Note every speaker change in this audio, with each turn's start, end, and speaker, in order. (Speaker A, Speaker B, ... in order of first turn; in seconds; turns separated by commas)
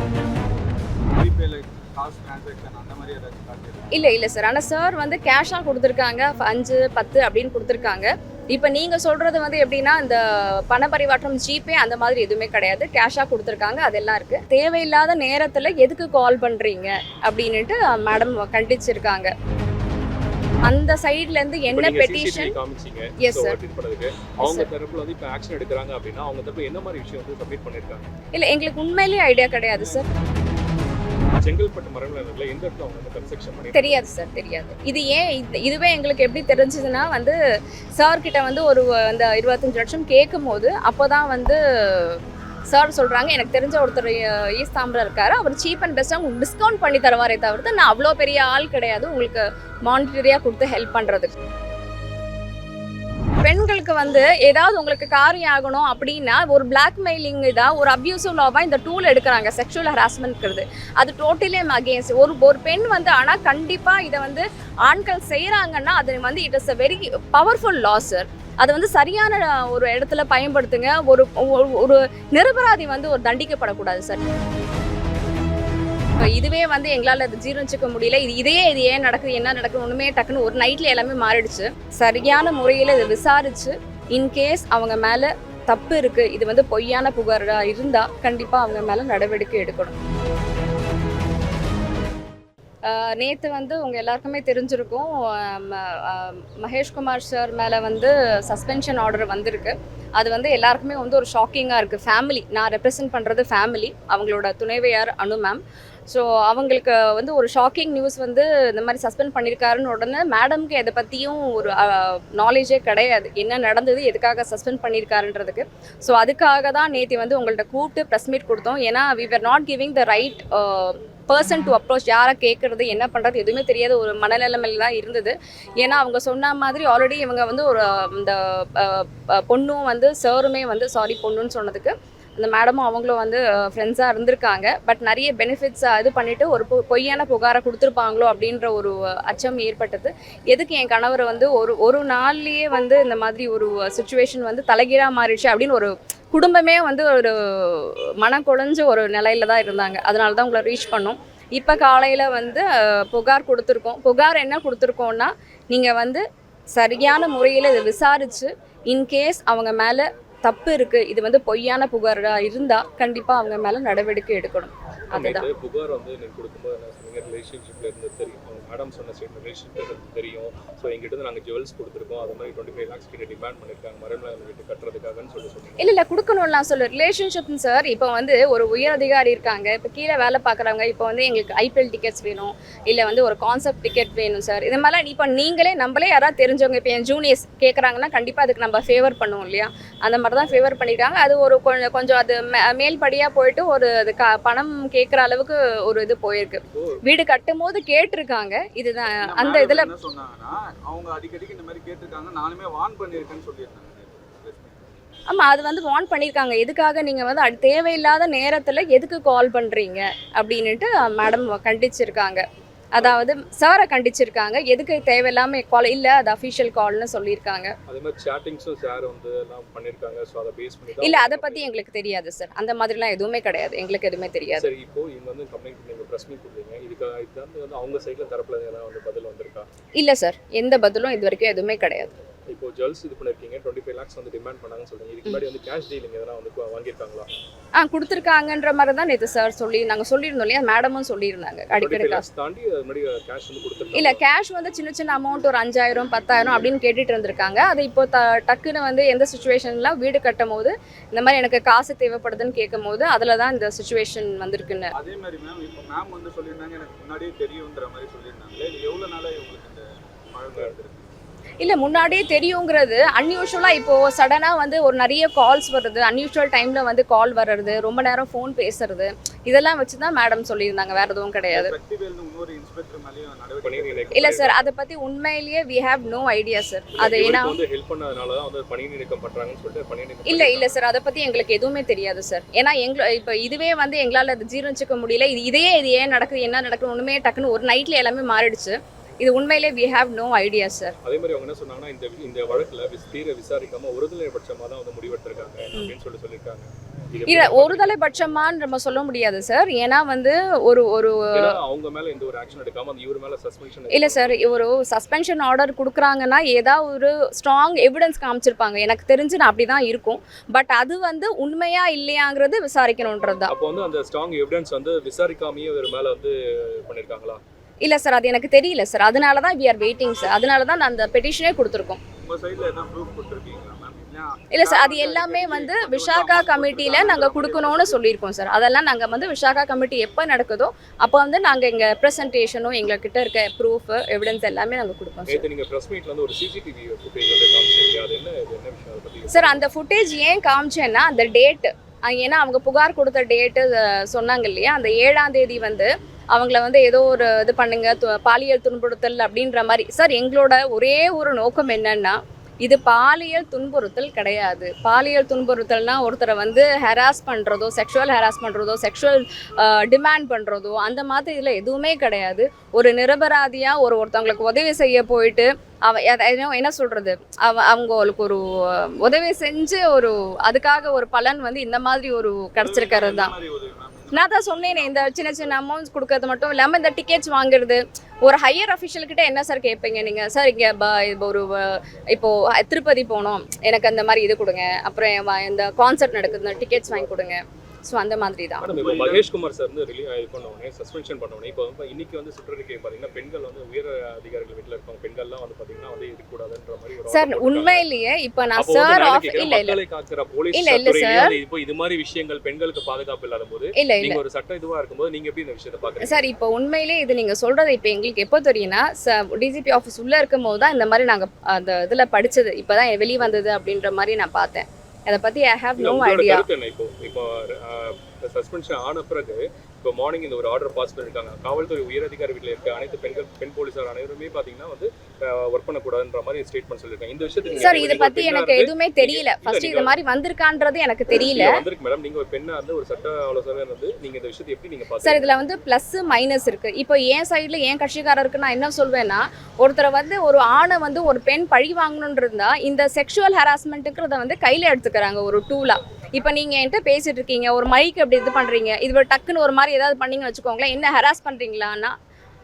Speaker A: 1.1-4.0, Speaker B: 3.9-19.3, Speaker B: 20.6-22.5, Speaker C: 21.7-28.1, Speaker B: 23.2-23.6, Speaker B: 24.4-24.7, Speaker B: 28.4-30.1, Speaker C: 31.4-34.1, Speaker B: 33.7-37.4, Speaker B: 38.0-51.3, Speaker B: 53.4-74.2, Speaker B: 76.2-90.0, Speaker B: 92.8-156.2, Speaker B: 156.8-165.5, Speaker C: 165.1-175.9, Speaker B: 175.8-199.9, Speaker C: 196.7-197.0, Speaker A: 199.1-204.9, Speaker B: 205.3-217.7, Speaker C: 217.9-221.7, Speaker B: 221.0-224.7, Speaker C: 224.6-229.7, Speaker B: 230.0-232.1, Speaker C: 232.5-237.3, Speaker B: 237.8-242.3, Speaker C: 241.8-244.2, Speaker B: 243.9-254.9, Speaker A: 254.9-261.1, Speaker B: 261.6-271.7, Speaker A: 271.5-274.3, Speaker C: 273.6-274.7, Speaker B: 274.1-277.6, Speaker C: 276.9-280.8, Speaker B: 280.3-290.9, Speaker C: 291.0-298.0, Speaker B: 297.3-301.6, Speaker C: 301.3-304.6, Speaker B: 303.9-313.5, Speaker C: 313.5-317.4, Speaker B: 317.8-322.0, Speaker A: 322.2-328.0, Speaker B: 324.5-335.5, Speaker C: 335.3-339.6, Speaker B: 339.3-373.3, Speaker A: 372.6-375.6, Speaker B: 374.1-388.7, Speaker C: 388.6-397.9, Speaker A: 388.8-389.2, Speaker B: 397.1-399.8, Speaker C: 398.6-406.2, Speaker B: 400.5-401.3, Speaker B: 403.8-404.2, Speaker B: 406.0-416.5, Speaker C: 415.8-430.0, Speaker B: 427.6-431.6, Speaker C: 431.1-435.3, Speaker B: 435.0-451.9